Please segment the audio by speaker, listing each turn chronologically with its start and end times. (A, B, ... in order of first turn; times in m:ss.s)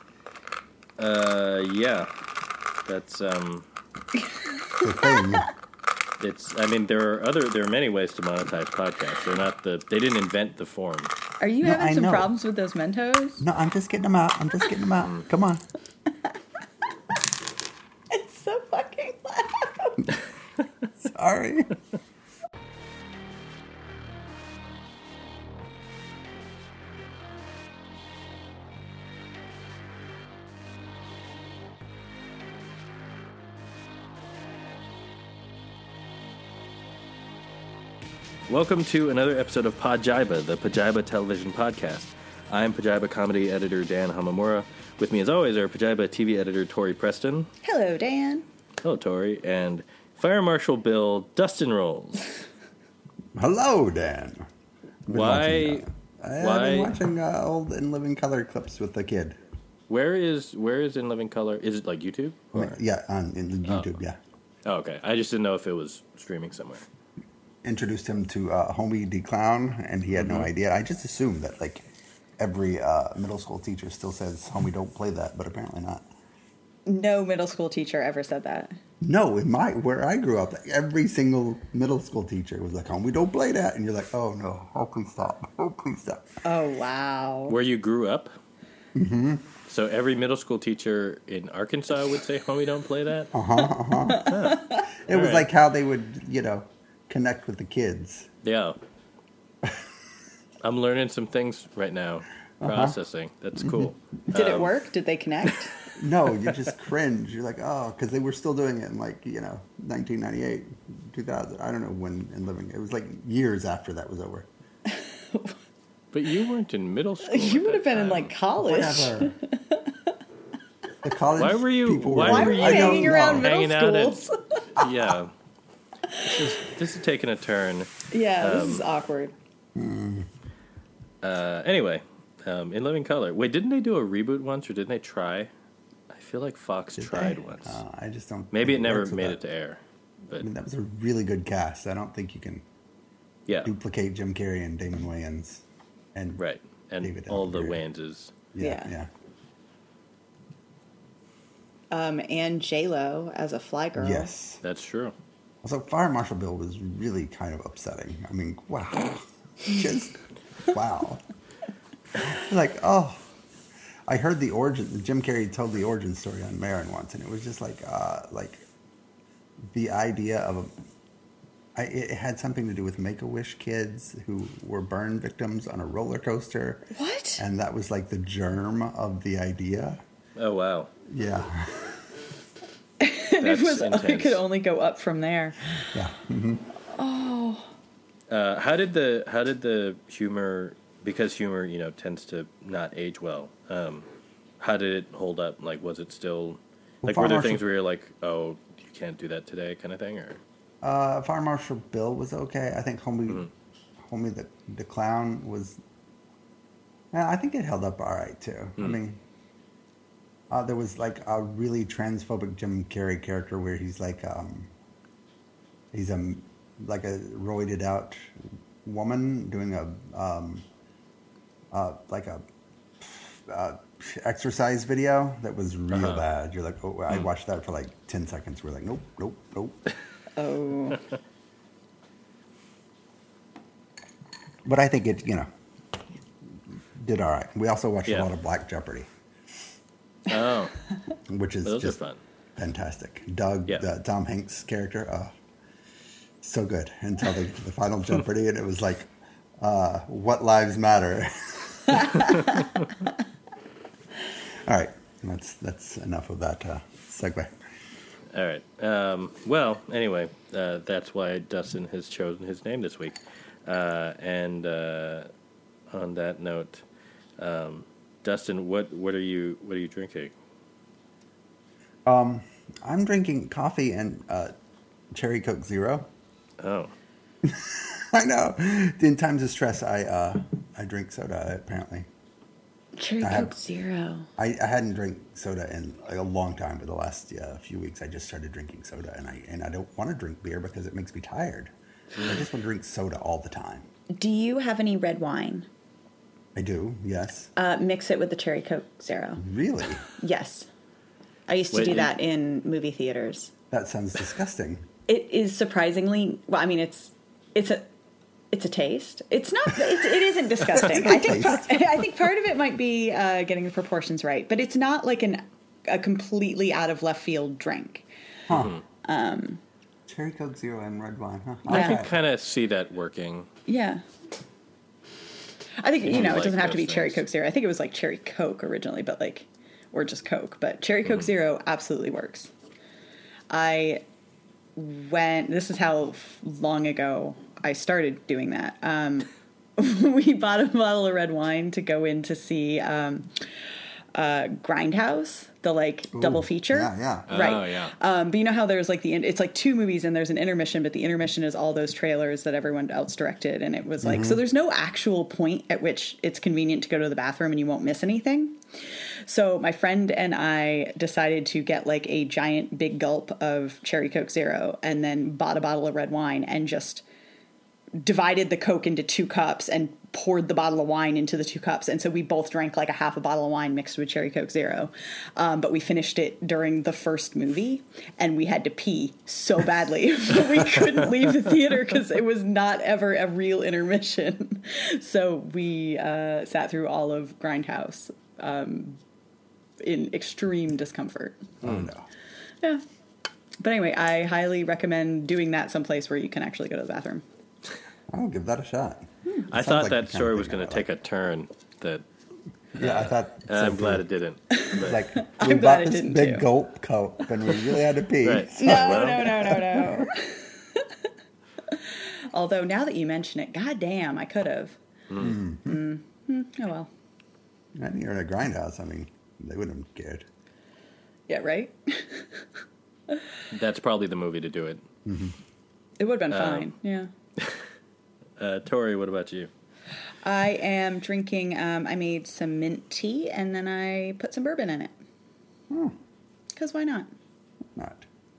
0:01.0-0:02.1 A
0:02.8-0:03.7 A
0:04.7-0:05.1 B
0:04.8-0:05.5 C
0:06.2-0:11.1 A
0:11.4-0:13.4 B
0:11.6-0:12.3 C
0:13.4-0:15.6 C
0:18.1-0:20.2 B
0:21.0-0:21.7 C
0:38.5-0:47.5 A
0:47.6-0:48.5 B
0:48.8-0:52.3 A
0:53.4-0:54.5 C
0:55.1-0:59.4 C
0:55.1-0:55.9 A
0:56.4-0:57.0 A
0:59.9-1:02.8 A
1:02.5-1:04.2 C
1:03.7-1:04.0 A
1:04.7-1:06.9 A
1:07.6-1:11.9 C
1:10.2-1:10.5 A
1:12.4-1:16.1 C
1:16.9-1:18.8 B
1:19.0-1:26.4 C
1:26.4-1:27.6 B
1:27.5-1:28.3 A
1:29.0-1:29.5 C
1:29.7-1:33.3 A
1:33.3-1:34.4 C
1:34.1-1:34.8 B
1:34.2-1:35.5 A
1:35.1-1:38.3 C
1:38.4-1:38.8 A
1:40.6-1:44.8 A
1:42.6-1:43.0 C
1:44.3-1:45.7 B
1:46.0-1:54.5 C
1:54.9-1:55.6 B
1:56.1-1:58.3 A
1:57.2-2:00.2 B
1:58.6-1:59.4 C
2:01.0-2:03.5 C
2:01.4-2:04.2 A
2:02.2-2:04.9 B
2:04.8-2:05.3 A
2:06.1-2:06.5 B
2:06.3-2:08.8 A
2:08.1-2:09.3 B
2:09.8-2:10.3 C
2:11.2-2:15.5 A
2:16.1-2:17.8 A
2:17.0-2:19.4 C
2:18.5-2:20.5 A
2:20.3-2:22.6 C
2:23.6-2:26.4 C
2:26.4-2:28.3 A
2:27.0-2:27.8 C
2:28.5-2:29.1 C
2:28.6-2:28.9 B
2:31.9-2:34.3 B
2:34.0-2:34.6 C
2:34.6-2:35.2 A
2:35.6-2:41.2 C
2:42.2-2:43.3 C
2:44.1-2:48.6 C
2:49.7-2:50.7 C
2:51.8-3:00.0 C
2:56.9-2:57.4 B
3:00.4-3:00.9 A
3:01.1-3:02.1 C
3:03.0-3:05.9 B
3:03.4-3:04.4 A
3:05.9-3:06.7 C
3:06.8-3:07.7 B
3:08.3-3:14.1 A
3:14.6-3:20.4 A
3:17.0-3:17.6 C
3:20.8-3:23.5 C
3:24.0-3:25.8 C
3:27.1-3:29.2 C
3:30.5-3:34.7 C
3:35.9-3:40.7 C
3:41.7-3:42.4 C
3:43.0-3:49.8 C
3:45.9-3:46.2 A
3:50.4-3:51.0 B
3:54.6-3:55.5 C
3:56.9-3:59.1 C
4:00.3-4:00.8 A
4:01.3-4:02.0 C
4:01.6-4:02.2 A
4:02.6-4:05.3 C
4:06.4-4:12.6 C
4:14.6-4:17.6 C
4:18.3-4:25.3 A
4:25.9-4:26.8 A
4:27.4-4:30.3 A
4:32.1-4:34.5 C
4:35.1-4:36.1 C
4:36.6-4:36.9 A
4:37.4-4:42.1 C
4:43.0-4:44.3 B
4:43.2-4:43.6 C
4:44.4-4:53.9 C
4:54.1-4:55.7 B
4:56.6-4:57.5 C
4:57.6-4:59.4 B
4:59.4-5:00.1 C
5:00.1-5:00.7 B
5:01.5-5:03.5 B
5:01.7-5:02.1 A
5:03.7-5:04.9 C
5:05.1-5:07.9 B
5:08.5-5:18.1 B
5:10.8-5:11.9 C
5:18.5-5:18.8 C
5:18.5-5:18.8 A
5:19.0-5:19.6 B
5:20.1-5:22.1 C
5:21.7-5:23.5 A
5:21.7-5:22.0 B
5:23.7-5:24.0 B
5:25.8-5:32.5 B
5:26.1-5:27.2 A
5:33.5-5:34.0 B
5:34.8-6:07.0 B
5:46.1-5:47.3 C
5:47.3-5:48.0 A
5:54.0-5:54.4 C
6:08.0-6:29.0 B
6:29.8-6:31.5 B
6:31.6-6:31.9 A
6:31.6-6:32.1 C
6:33.6-6:37.2 B
6:38.1-6:40.9 C
6:39.5-6:42.0 A
6:42.8-6:44.1 C
6:42.8-6:45.0 A
6:44.5-6:46.5 B
6:44.7-6:50.1 C
6:48.2-6:49.3 A
6:48.6-6:51.1 B
6:51.7-6:54.8 B
6:55.1-6:55.4 A
6:55.2-6:55.8 C
6:55.6-6:56.9 B
6:57.8-7:00.3 C
7:01.3-7:02.5 B
7:03.5-7:04.8 A
7:05.1-7:05.4 C
7:06.0-7:07.1 B
7:06.3-7:06.7 A
7:07.4-7:07.6 A
7:08.4-7:09.5 A
7:10.2-7:14.9 B
7:15.7-7:16.0 C
7:16.5-7:17.1 B
7:17.8-7:18.1 C